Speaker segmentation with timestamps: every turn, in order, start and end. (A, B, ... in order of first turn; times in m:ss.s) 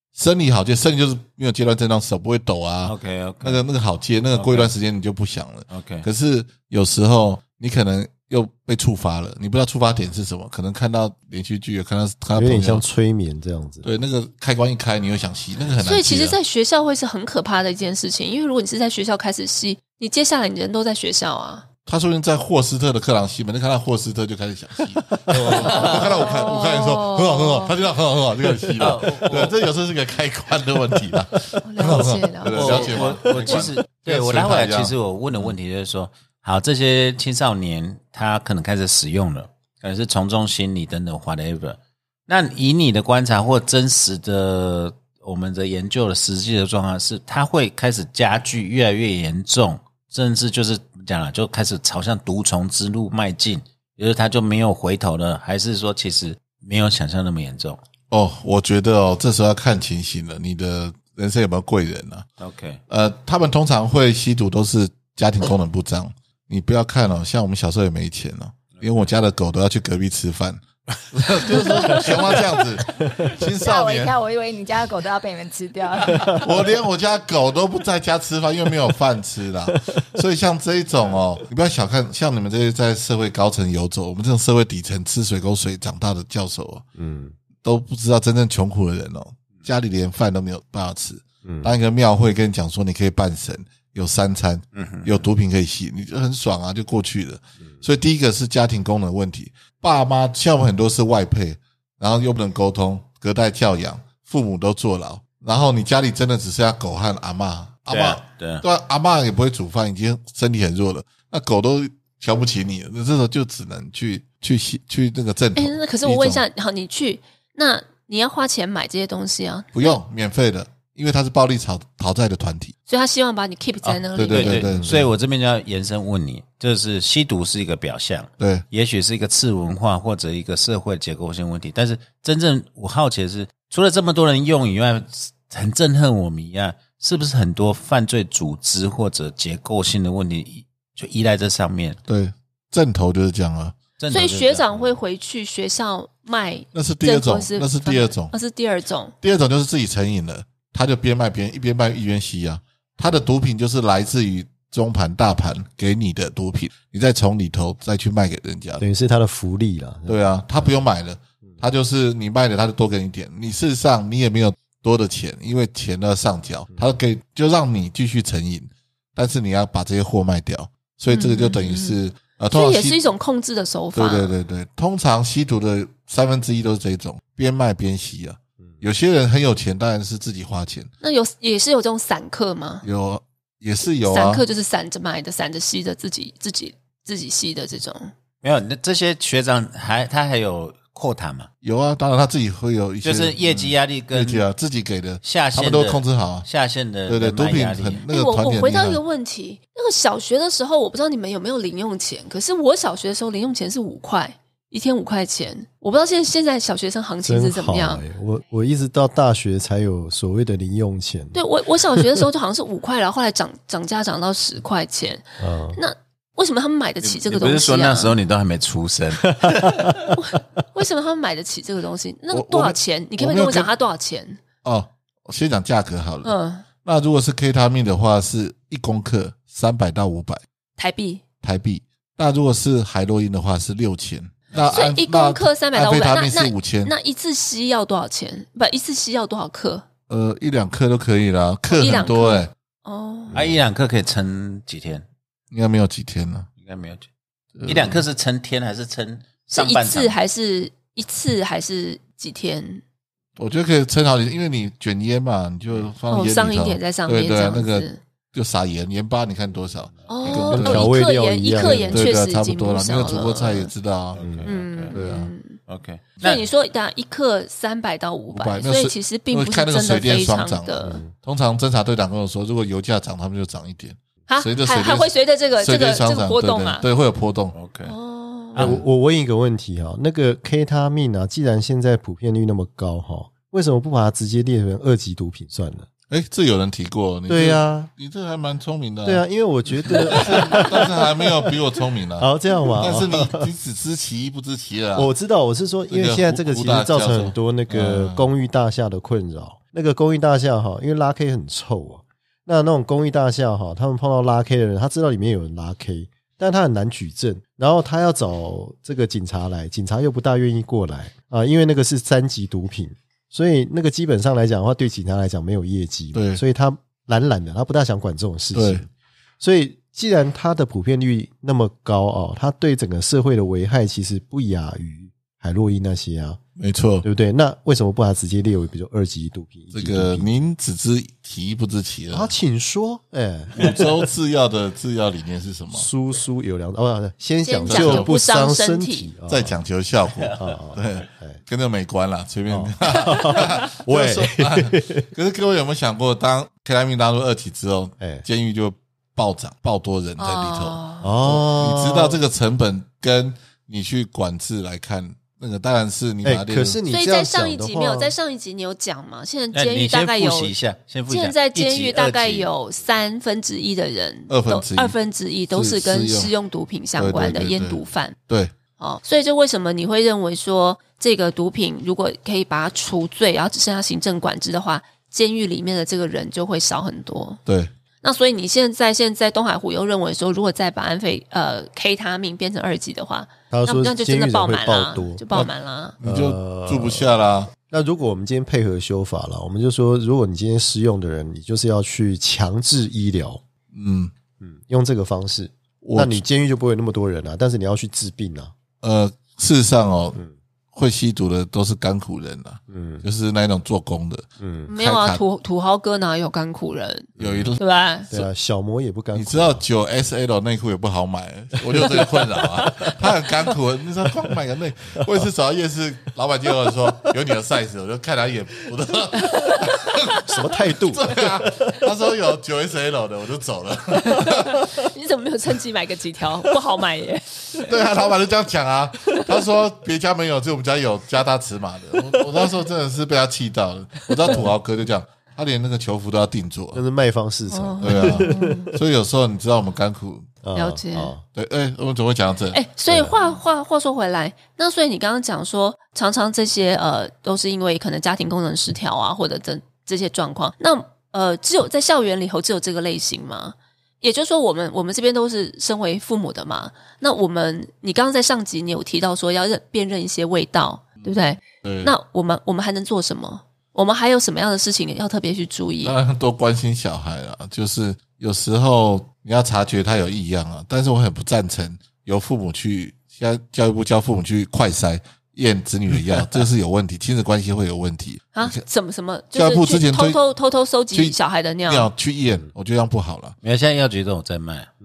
0:00.1-0:12.8 A
0:02.8-0:03.6 B
0:04.4-0:04.7 B
0:05.7-0:06.1 B
0:12.4-0:13.9 C
0:13.8-0:16.4 A
0:15.8-0:21.6 D
0:21.9-0:35.6 A
0:25.3-0:26.0 C
0:25.6-0:26.1 B
0:25.6-0:27.8 D
0:28.8-0:29.6 B
0:31.6-0:33.0 D
0:32.5-0:57.8 B
0:58.1-1:02.3 A
1:02.4-1:02.8 B
1:02.9-1:14.2 A
1:08.8-1:09.0 B
1:13.6-1:16.5 E
1:16.2-1:26.8 A
1:27.0-1:27.4 C
1:27.6-1:56.4 A
1:31.4-1:31.7 C
1:34.8-1:35.2 B
1:47.9-1:48.6 B
1:55.6-2:00.0 D
1:59.7-2:02.7 A
2:02.9-2:04.6 D
2:03.8-2:22.0 B
2:04.1-2:05.1 A
2:04.8-2:05.1 C
2:22.1-2:23.8 A
2:24.0-2:25.0 B
2:24.1-2:29.1 D
2:26.7-2:28.3 A
2:29.2-2:38.8 A
2:38.8-2:40.7 C
2:40.1-2:53.0 A
2:51.1-2:52.0 D
2:52.5-2:54.3 D
2:53.9-3:00.9 A
3:01.0-3:02.9 D
3:02.8-3:04.4 A
3:04.0-3:08.1 D
3:08.4-3:11.5 B
3:11.6-3:16.5 A
3:13.0-3:14.4 B
3:15.2-3:18.0 B
3:17.1-3:19.0 A
3:18.1-3:28.0 D
3:27.2-3:31.4 C
3:31.3-3:38.2 D
3:35.4-3:35.8 C
3:37.0-3:40.0 B
3:39.4-3:40.1 C
3:40.2-3:44.4 D
3:42.3-3:43.7 A
3:44.6-3:50.4 A
3:46.2-3:46.6 D
3:50.8-3:51.2 D
3:51.4-3:56.9 A
3:54.7-3:59.8 D
4:00.1-4:02.5 A
4:01.7-4:03.4 D
4:03.3-4:05.0 B
4:05.5-4:06.5 A
4:06.6-4:07.1 B
4:07.6-4:08.0 A
4:07.6-4:10.1 B
4:09.5-4:12.8 D
4:13.4-4:21.0 A
4:16.1-4:18.0 D
4:20.1-4:20.6 B
4:20.1-4:23.7 D
4:20.5-4:22.0 C
4:21.6-4:24.2 A
4:24.1-4:25.0 B
4:24.2-4:24.5 C
4:24.5-4:25.6 D
4:24.9-4:25.3 A
4:25.7-4:26.4 B
4:26.2-4:31.0 D
4:28.3-4:37.6 A
4:30.8-4:31.1 C
4:34.3-4:36.8 D
4:37.5-4:37.9 B
4:37.8-4:38.7 D
4:38.6-4:38.8 B
4:38.6-4:45.9 C
4:46.1-4:49.2 A
4:47.3-4:47.9 C
4:49.0-4:51.6 C
4:49.8-4:55.1 A
4:52.2-4:53.5 C
4:55.0-5:18.9 C
4:55.9-4:58.3 A
5:16.1-5:16.4 A
5:18.5-5:18.9 A
5:19.4-5:26.4 C
5:26.6-5:27.0 A
5:27.0-5:30.3 C
5:29.7-5:32.3 A
5:32.1-5:33.9 C
5:33.5-5:35.9 A
5:35.7-5:39.6 C
5:37.4-5:39.1 D
5:37.6-5:38.1 A
5:39.3-5:56.8 A
5:40.4-5:41.4 C
5:42.5-5:45.1 C
5:50.2-5:51.1 D
5:51.0-5:52.2 C
5:56.2-5:58.1 C
5:56.9-6:00.6 D
5:59.5-6:02.5 B
6:01.1-6:08.2 D
6:04.3-6:05.0 A
6:05.5-6:06.3 A
6:07.0-6:08.5 A
6:08.8-6:17.4 D
6:17.5-6:17.7 A
6:18.0-6:26.0 D
6:23.5-6:25.2 C
6:25.3-6:27.5 A
6:26.0-6:27.1 C
6:27.7-6:33.4 C
6:33.7-6:34.1 A
6:34.4-6:38.5 C
6:35.8-6:36.2 A
6:38.8-6:40.2 A
6:40.7-6:45.2 A
6:42.7-6:43.0 C
6:44.4-6:44.7 C
6:44.7-6:48.1 D
6:47.2-6:47.5 C
6:47.2-6:48.3 A
6:48.1-6:49.6 C
6:49.1-7:00.2 A
6:51.6-6:53.3 C
6:56.7-6:57.1 C
6:59.2-7:00.2 D
7:00.3-7:01.8 C
7:00.8-7:04.6 A
7:04.0-7:08.0 D
7:07.6-7:16.8 A
7:16.7-7:18.8 C
7:17.5-7:18.7 D
7:17.8-7:20.3 A
7:20.4-7:21.2 C
7:20.6-7:21.1 D
7:21.4-7:22.6 A
7:22.5-7:46.0 D
7:22.9-7:23.2 C
7:41.0-7:41.9 A
7:45.8-7:58.6 A
7:58.3-8:01.9 D
7:59.3-8:00.2 A
8:00.9-8:03.4 A
8:03.4-8:04.7 B